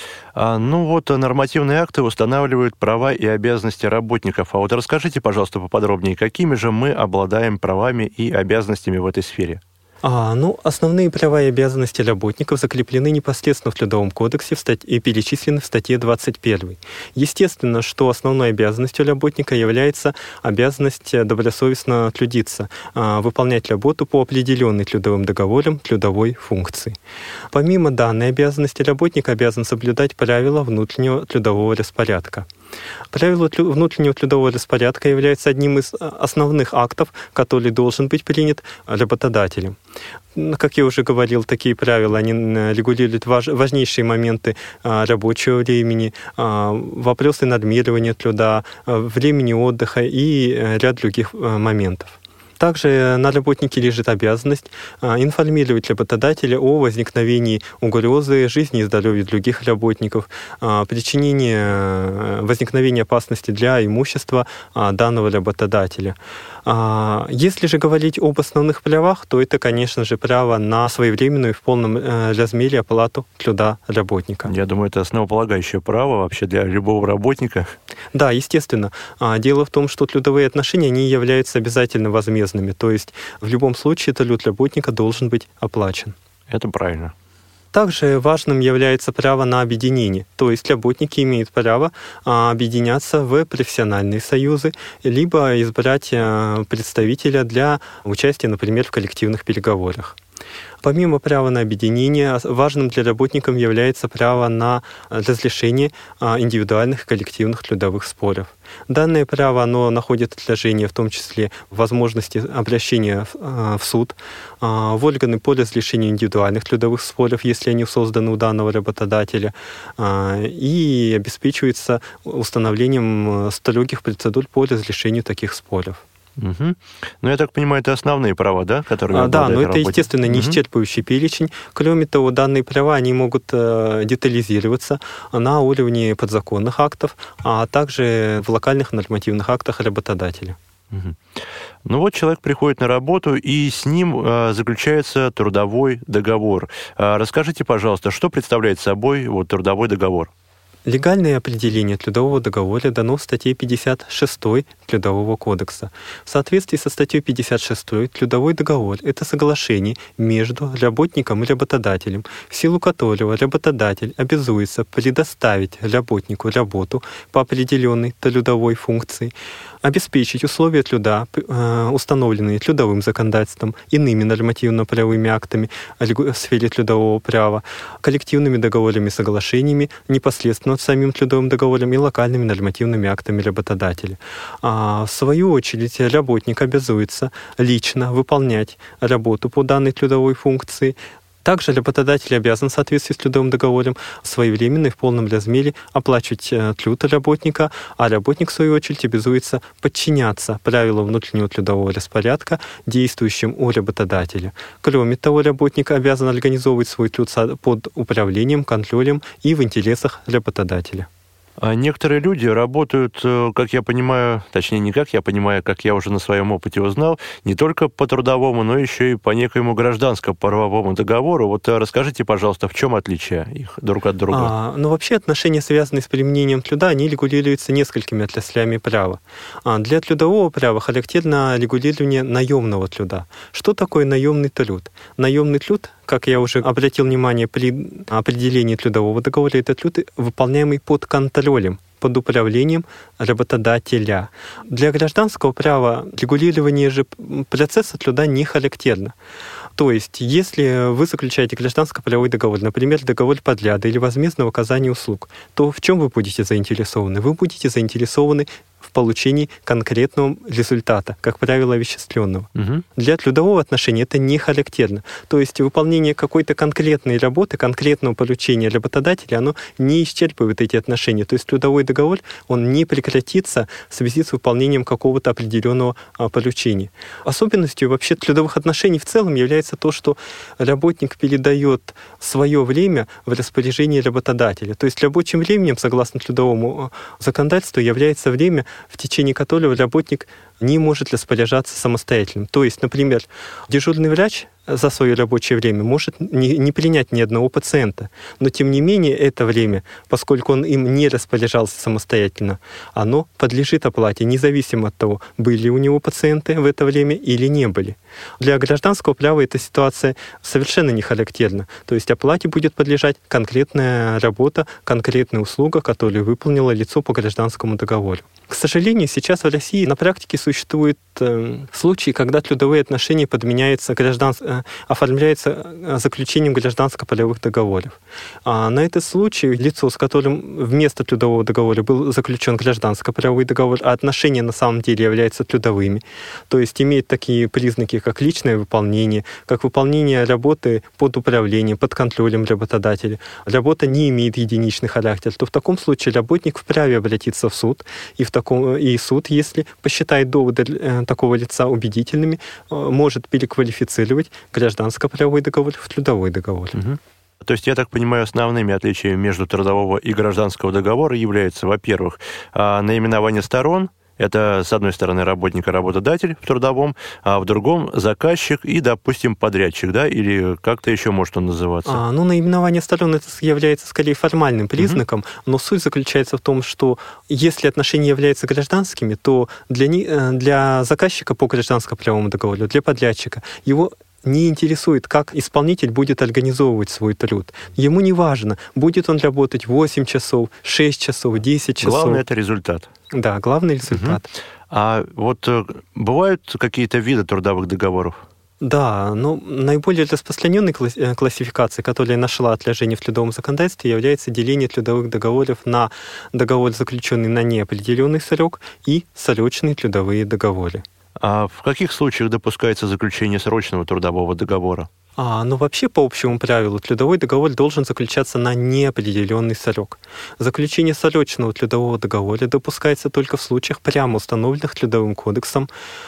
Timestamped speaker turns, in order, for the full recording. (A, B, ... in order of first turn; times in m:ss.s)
0:00.4-0:09.6 A
0:10.0-0:27.0 B
0:27.5-0:32.5 B
0:33.1-0:39.8 B
0:40.4-1:14.5 B
1:14.5-1:17.7 A
1:18.1-1:26.2 B
1:26.5-1:27.1 A
1:27.7-1:40.2 B
1:40.8-2:06.0 B
2:06.4-2:10.6 A
2:09.1-2:20.6 B
2:20.9-2:21.2 A
2:21.8-2:30.3 A
2:30.9-2:49.3 B
2:49.8-3:31.1 B
3:31.6-3:44.5 A
3:44.3-4:09.2 B
4:09.8-5:56.8 B
4:22.6-4:22.8 A
5:56.7-6:12.0 A
6:11.9-6:32.2 B
6:31.8-6:32.9 A
6:33.1-6:34.3 B
6:33.9-6:38.2 A
6:38.6-6:50.8 B
6:51.2-6:54.9 A
6:55.2-7:05.7 B